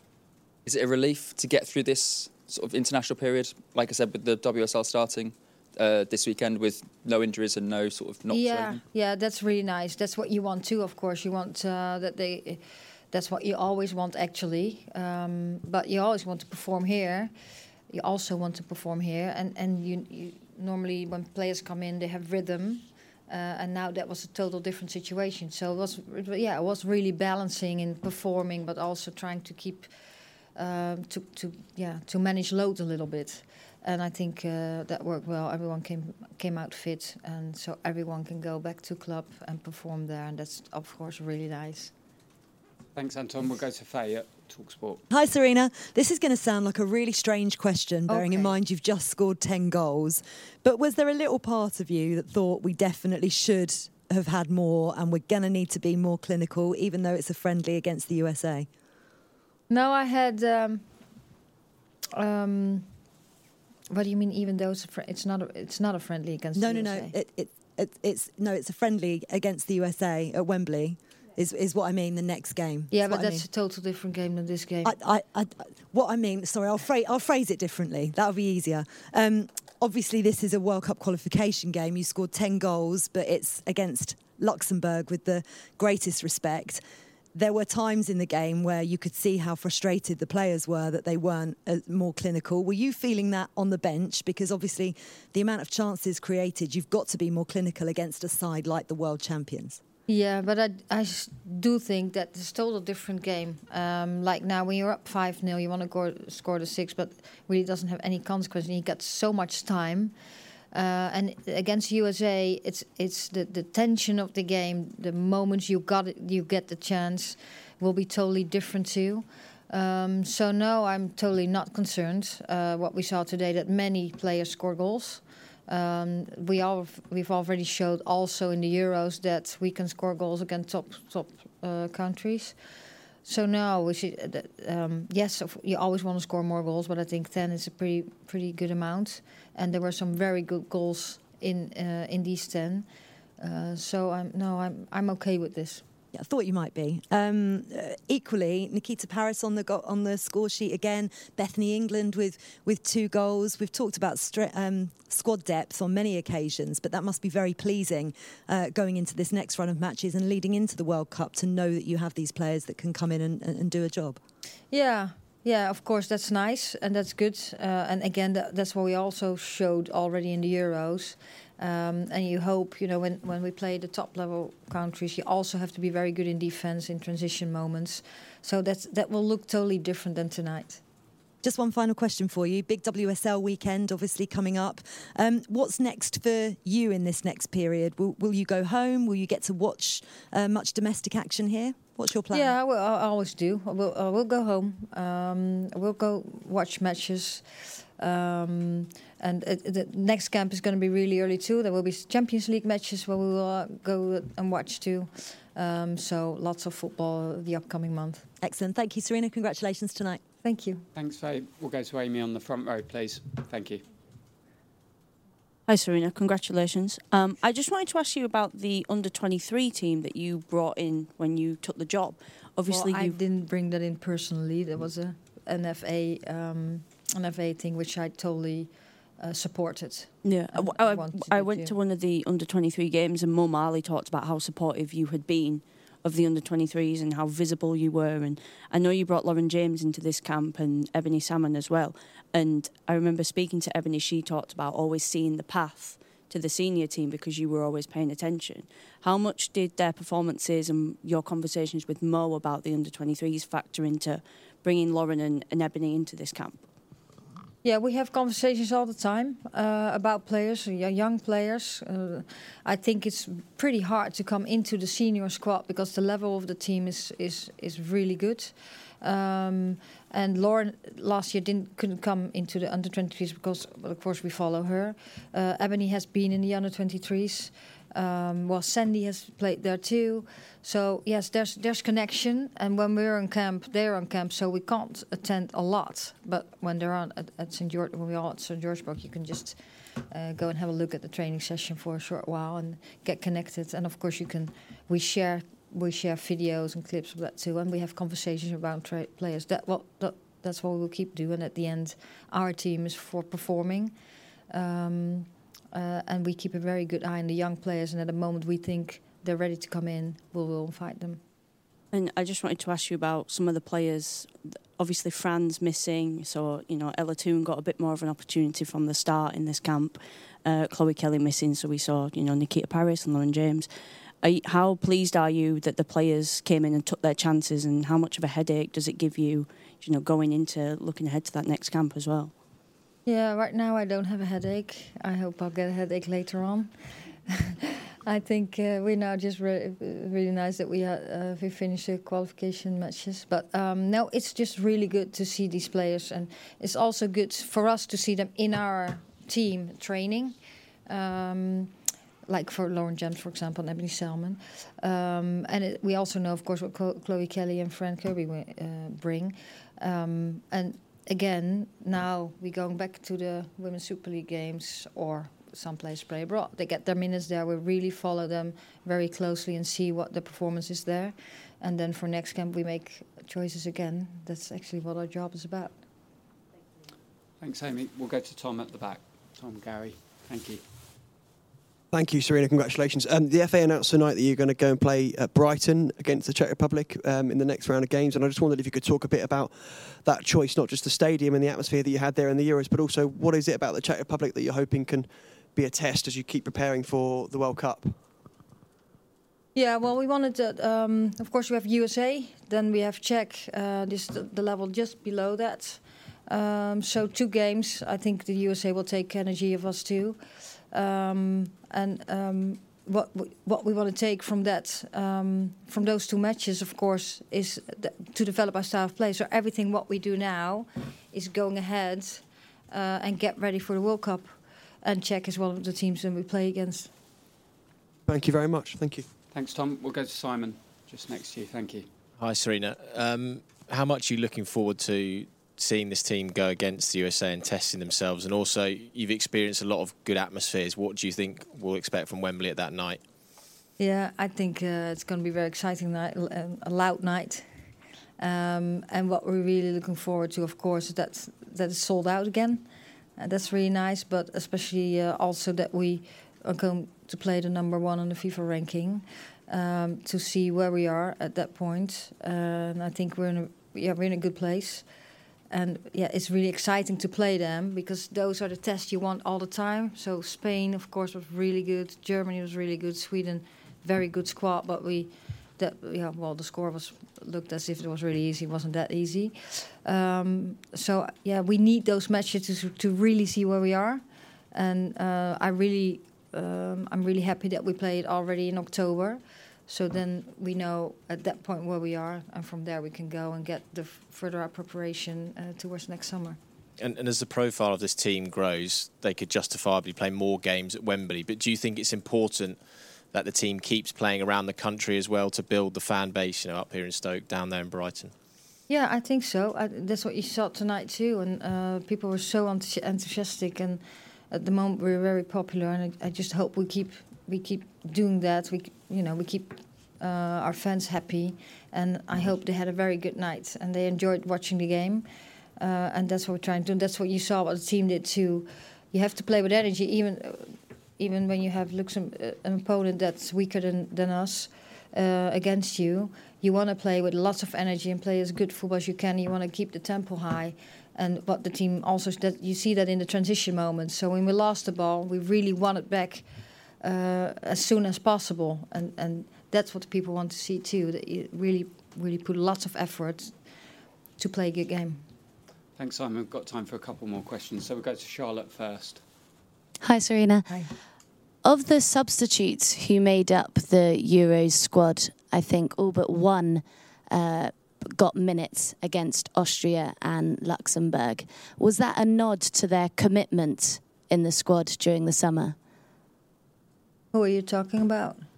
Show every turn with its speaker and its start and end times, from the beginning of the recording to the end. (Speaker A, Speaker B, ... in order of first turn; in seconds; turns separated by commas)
Speaker A: 0.7-8.8, Speaker B: 8.3-17.3, Speaker B: 17.9-29.9, Speaker B: 30.6-41.9, Speaker C: 43.0-45.0, Speaker D: 45.1-58.7, Speaker B: 48.1-48.6, Speaker B: 59.7-60.8, Speaker B: 62.2-62.9, Speaker B: 63.9-67.1, Speaker D: 66.5-73.5, Speaker B: 72.9-75.0, Speaker D: 74.8-86.8, Speaker D: 87.3-99.8, Speaker B: 100.1-110.1, Speaker B: 110.7-132.6, Speaker B: 133.2-142.9, Speaker B: 143.4-145.8, Speaker D: 146.1-164.2, Speaker B: 164.7-180.8, Speaker D: 181.4-192.6, Speaker B: 192.3-197.4, Speaker B: 198.0-208.3, Speaker D: 208.4-210.2, Speaker B: 210.4-210.9, Speaker C: 210.9-213.8, Speaker E: 215.7-223.2, Speaker B: 222.7-231.8, Speaker E: 230.2-256.6, Speaker B: 257.6-289.6, Speaker B: 290.1-303.9, Speaker B: 304.5-311.2, Speaker E: 311.9-323.7, Speaker E: 324.2-332.3, Speaker B: 333.1-336.7, Speaker B: 337.3-350.4, Speaker B: 350.9-351.7, Speaker B: 352.3-375.8, Speaker C: 377.4-380.6, Speaker F: 381.9-398.0, Speaker B: 399.6-410.2, Speaker B: 410.7-426.9, Speaker F: 428.1-429.1, Speaker C: 429.3-431.9, Speaker G: 432.2-443.0, Speaker B: 443.8-447.5, Speaker B: 448.2-464.9, Speaker B: 465.5-496.4, Speaker G: 496.8-502.6, Speaker G: 503.1-508.1, Speaker B: 508.7-525.0, Speaker B: 525.6-546.3, Speaker B: 546.8-553.3, Speaker B: 554.2-555.0, Speaker C: 555.8-559.0, Speaker H: 559.8-560.6, Speaker H: 561.5-575.6, Speaker B: 577.1-578.2